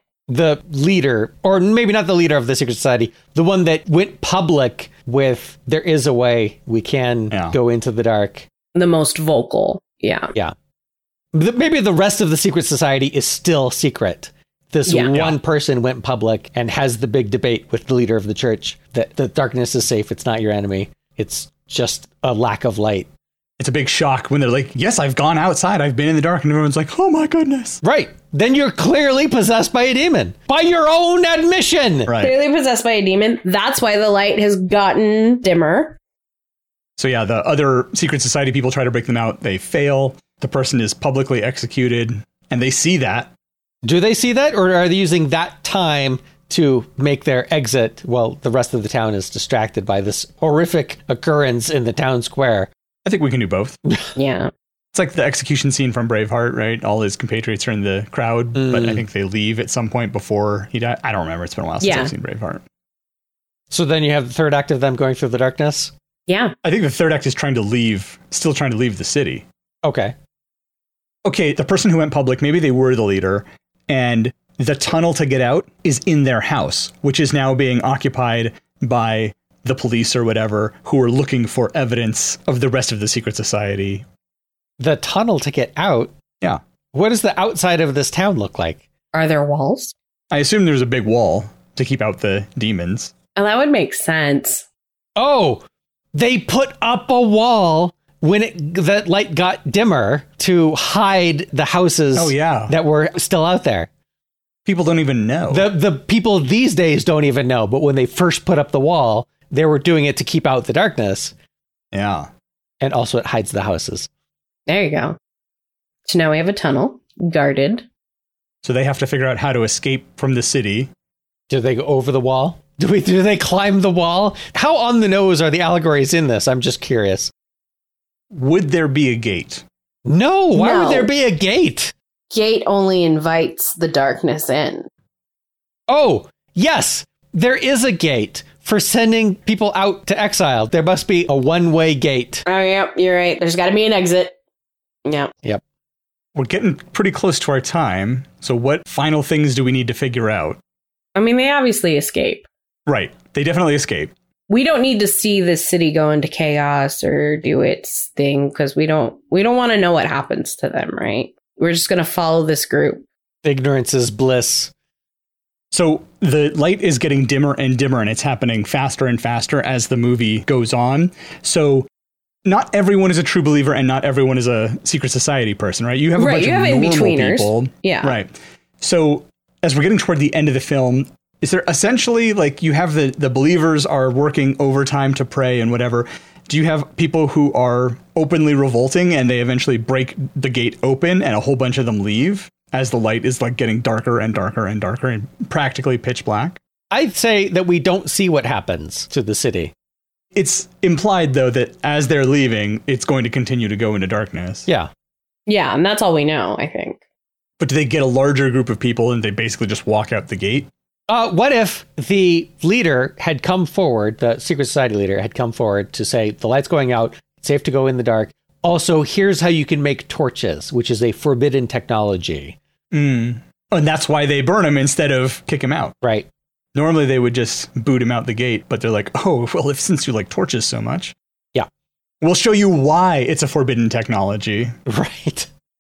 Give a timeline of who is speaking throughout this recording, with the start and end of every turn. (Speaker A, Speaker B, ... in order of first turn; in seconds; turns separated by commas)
Speaker A: 0.3-8.5, Speaker B: 7.3-7.6, Speaker C: 8.8-10.3, Speaker A: 11.3-23.1, Speaker C: 14.9-15.2, Speaker B: 15.1-15.4, Speaker B: 23.6-27.8, Speaker A: 27.8-32.1, Speaker B: 32.1-32.3, Speaker C: 32.2-36.0, Speaker B: 37.0-43.3, Speaker A: 43.8-52.7, Speaker B: 53.0-53.8, Speaker C: 54.2-54.5, Speaker B: 54.9-62.6, Speaker A: 58.5-59.0, Speaker C: 61.8-62.1, Speaker A: 63.7-65.9, Speaker C: 66.3-66.5, Speaker B: 66.6-69.5, Speaker A: 69.8-70.1, Speaker B: 71.2-84.0, Speaker A: 84.8-86.1, Speaker A: 86.9-88.8, Speaker C: 89.1-90.0, Speaker B: 90.3-93.1, Speaker C: 93.4-94.7, Speaker A: 95.2-103.9, Speaker B: 102.2-102.7, Speaker B: 104.7-105.7, Speaker A: 105.5-111.3, Speaker B: 111.9-112.3, Speaker A: 112.8-114.1, Speaker C: 114.7-115.2, Speaker C: 116.1-117.9, Speaker B: 118.6-120.9, Speaker A: 121.5-127.3, Speaker B: 128.3-129.7, Speaker A: 130.1-131.9, Speaker C: 130.6-131.1, Speaker C: 132.3-134.9, Speaker A: 135.9-142.4, Speaker C: 142.5-144.3, Speaker C: 145.1-145.3, Speaker B: 146.3-150.6, Speaker C: 151.2-152.5, Speaker B: 152.9-154.1, Speaker C: 154.5-163.0, Speaker A: 163.4-164.7, Speaker B: 165.7-171.9, Speaker B: 172.4-196.6, Speaker C: 176.2-178.1, Speaker A: 196.9-199.7, Speaker B: 200.3-204.7, Speaker C: 205.5-207.0, Speaker B: 207.6-210.7, Speaker A: 211.1-222.6, Speaker B: 222.9-225.9, Speaker B: 226.8-231.2, Speaker B: 232.2-234.8, Speaker A: 234.9-235.5